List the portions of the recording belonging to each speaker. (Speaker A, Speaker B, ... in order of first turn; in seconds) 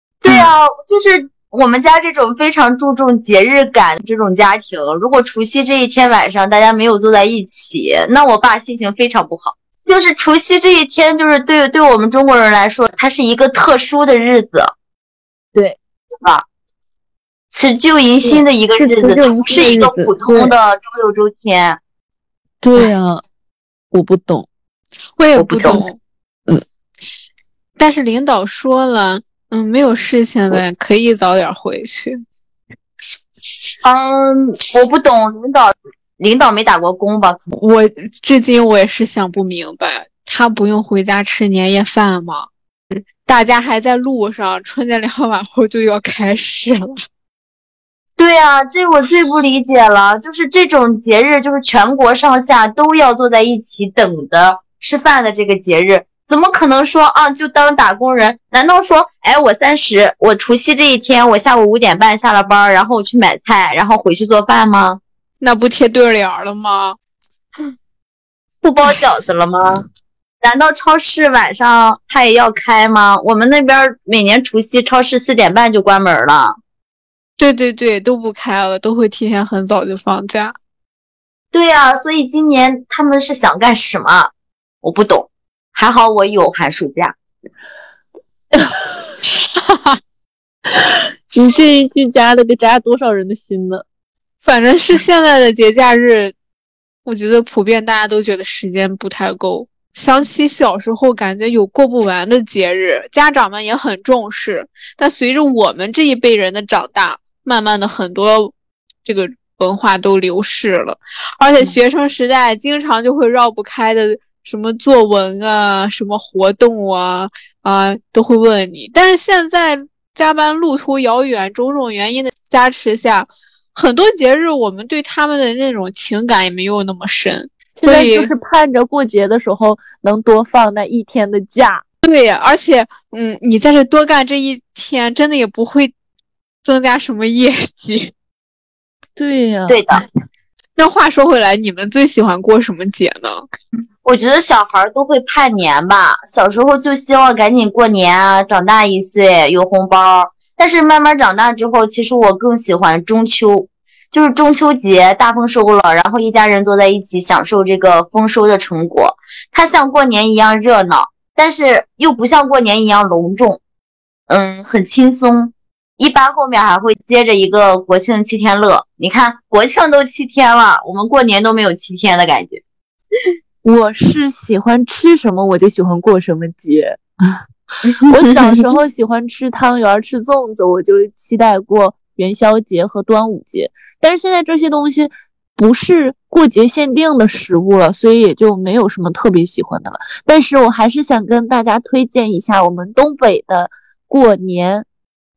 Speaker A: 0.2-14.7, 17.5-21.8, 25.4-25.8, 33.8-37.5, 48.2-65.0, 68.6-69.8, 70.4-76.5, 81.5-84.3, 84.8-87.1, 139.7-140.0, 144.0-163.6, 164.3-172.6, 178.1-178.6
Speaker B: 18.2-20.5, 22.6-23.2, 23.9-24.5, 91.3-93.8, 127.8-131.8, 139.2-140.0, 173.6-177.4, 178.1-194.8
Speaker C: 25.2-26.0, 27.8-32.2, 37.5-46.8, 65.4-67.0, 77.4-80.5, 89.5-90.0, 94.4-96.3, 97.0-128.3, 132.0-135.9, 136.6-138.1, 140.8-143.5